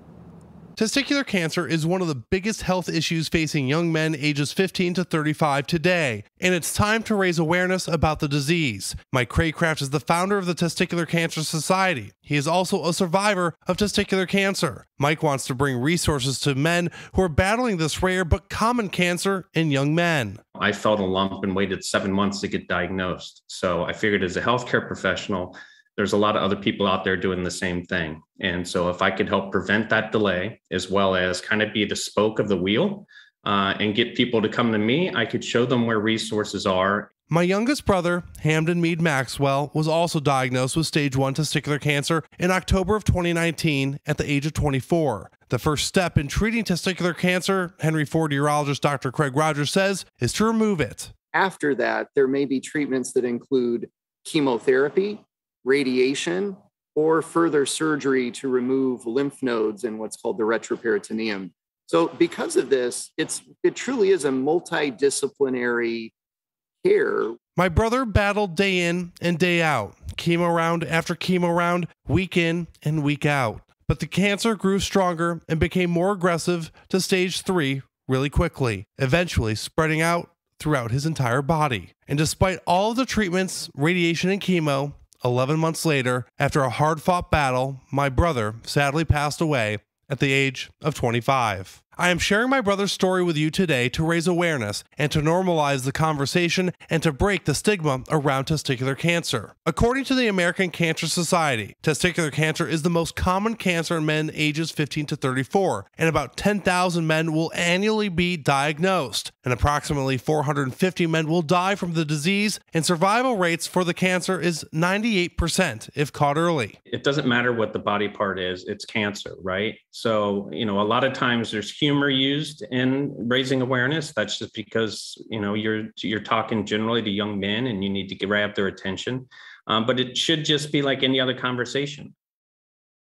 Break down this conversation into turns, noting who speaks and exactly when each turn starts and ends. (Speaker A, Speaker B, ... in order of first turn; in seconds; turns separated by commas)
Speaker A: 0.8-20.4, Speaker B: 20.6-37.1, Speaker A: 37.3-51.1, Speaker C: 51.3-66.1, Speaker C: 66.8-67.4, Speaker A: 67.5-116.8, Speaker B: 116.9-132.1